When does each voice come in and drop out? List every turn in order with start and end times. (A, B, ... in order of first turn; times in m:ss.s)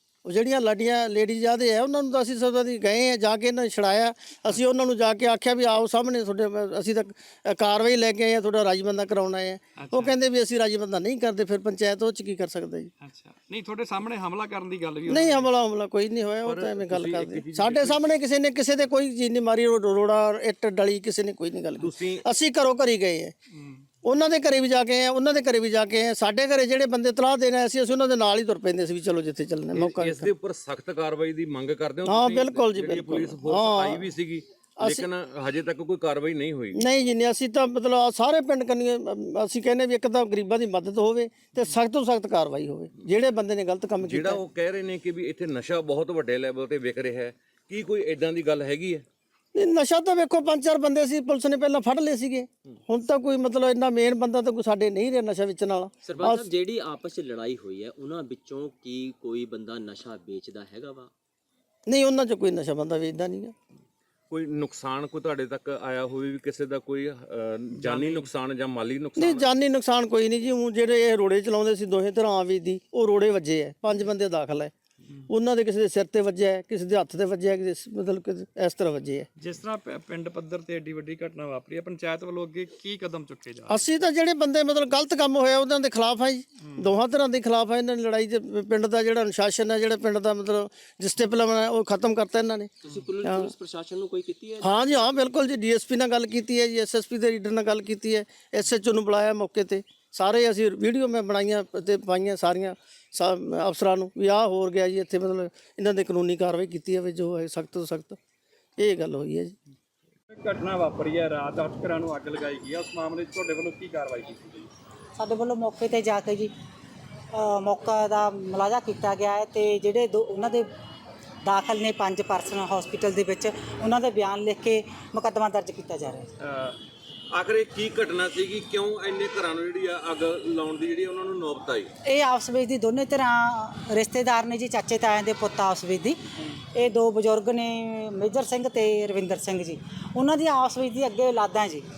0:00.2-0:12.9 A
0:09.8-0:10.1 B
0:13.0-0:15.5 B
0:15.1-0:23.3 A
0:16.4-0:18.0 C
0:21.8-0:22.2 C
0:23.6-0:23.8 B
0:24.0-0:30.3 A
0:29.7-0:36.8 C
0:32.0-0:34.1 A
0:34.8-0:35.1 A
0:36.7-0:44.4 A
0:44.0-0:49.0 C
0:49.5-0:56.5 A
0:56.0-1:01.1 D
1:01.9-1:03.5 A
1:04.3-1:09.4 C
1:07.8-1:08.3 B
1:09.2-1:14.7 A
1:15.3-1:19.3 A
1:19.4-1:23.9 B
1:23.7-1:33.5 A
1:32.8-1:34.9 D
1:34.6-1:48.2 A
1:48.8-1:49.5 A
1:50.3-1:54.7 B
1:55.2-1:56.5 E
1:57.3-2:00.7 E
2:01.4-2:06.3 E
2:06.4-2:06.8 C
2:07.3-2:11.9 C
2:12.0-2:21.8 E